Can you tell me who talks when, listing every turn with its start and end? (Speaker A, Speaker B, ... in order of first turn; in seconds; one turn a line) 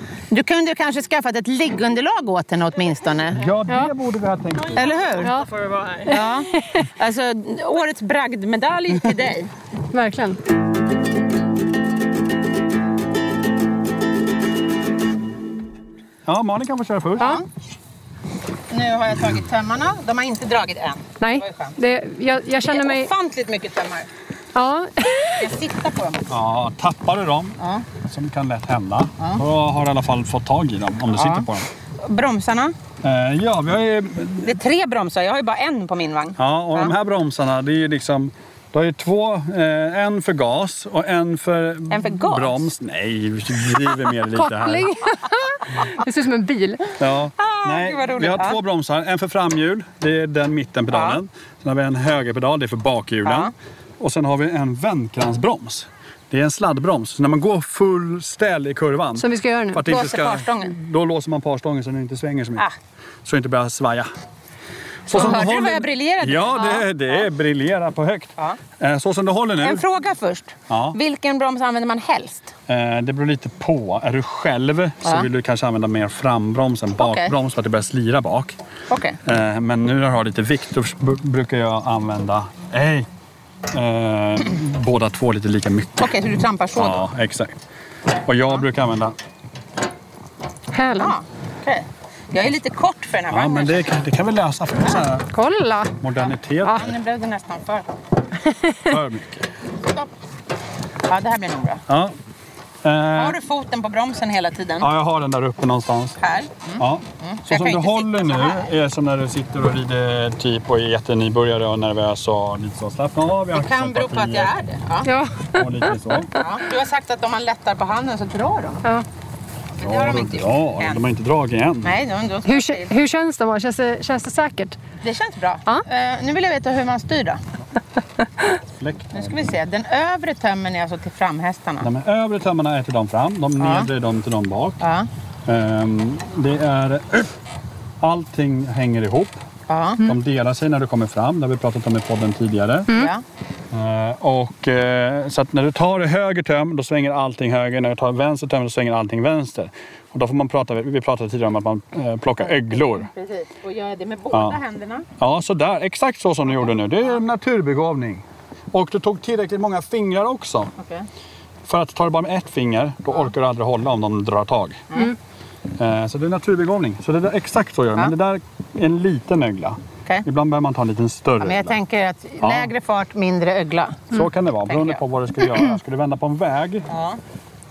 Speaker A: 0.3-3.4
Speaker B: 3.3-4.9
Speaker A: 4.7-5.3
Speaker C: 5.2-6.8
Speaker A: 6.0-9.5
Speaker C: 9.9-10.4
Speaker B: 16.2-17.4
Speaker A: 17.2-17.4
Speaker A: 18.7-21.8
Speaker C: 21.2-23.1
Speaker A: 22.6-24.1
Speaker C: 24.5-25.4
Speaker A: 25.4-26.3
Speaker B: 26.3-31.7
Speaker A: 27.6-27.8
Speaker A: 31.1-31.5
Speaker A: 32.0-32.7
Speaker B: 33.0-34.5
Speaker A: 34.4-36.9
Speaker B: 36.4-44.9
Speaker A: 41.9-42.7
Speaker C: 44.3-46.9
Speaker B: 47.0-62.6
Speaker A: 47.4-48.6
Speaker A: 50.9-51.2
Speaker A: 53.2-53.5
Speaker C: 59.2-59.8
Speaker A: 59.9-60.7
Speaker B: 63.2-64.1
Speaker B: 65.1-69.8
Speaker A: 65.1-66.9
Speaker A: 69.6-72.5
Speaker B: 70.7-71.0
Speaker B: 72.7-78.6
Speaker A: 77.0-77.3
Speaker A: 78.9-79.2
Speaker B: 79.2-83.1
Speaker B: 83.7-86.1
Speaker A: 86.0-87.0
Speaker B: 86.7-87.6
Speaker B: 88.2-89.2
Speaker C: 90.7-91.1
Speaker A: 90.9-93.9
Speaker B: 93.3-95.3
Speaker C: 95.3-96.0
Speaker B: 96.0-96.9
Speaker A: 96.6-97.8
Speaker B: 98.8-99.4
Speaker A: 101.1-101.8
Speaker B: 101.9-102.1
Speaker B: 102.8-103.4
Speaker A: 103.1-104.9
Speaker B: 104.8-106.2
Speaker A: 106.2-108.7
Speaker B: 106.8-114.5
Speaker A: 113.5-115.1
Speaker C: 115.0-116.0
Speaker B: 115.5-116.3
Speaker A: 116.3-118.8
Speaker A: 119.8-121.0
Speaker B: 119.8-121.9
Speaker A: 121.8-122.9
Speaker C: 122.5-124.8
Speaker A: 125.0-127.4
Speaker B: 128.8-129.5
Speaker A: 129.1-131.9
Speaker B: 131.8-134.8
Speaker A: 133.6-133.9
Speaker A: 134.8-135.1
Speaker B: 135.4-137.3
Speaker B: 138.0-139.4
Speaker A: 139.7-140.1
Speaker B: 140.0-142.9
Speaker A: 142.9-143.2
Speaker B: 143.7-153.1
Speaker A: 152.4-155.1
Speaker B: 154.3-154.6
Speaker B: 155.2-160.7
Speaker A: 160.8-161.1
Speaker B: 161.6-164.8
Speaker B: 165.8-171.8
Speaker A: 171.4-175.0
Speaker B: 172.4-172.7
Speaker B: 174.1-176.9
Speaker A: 176.9-177.2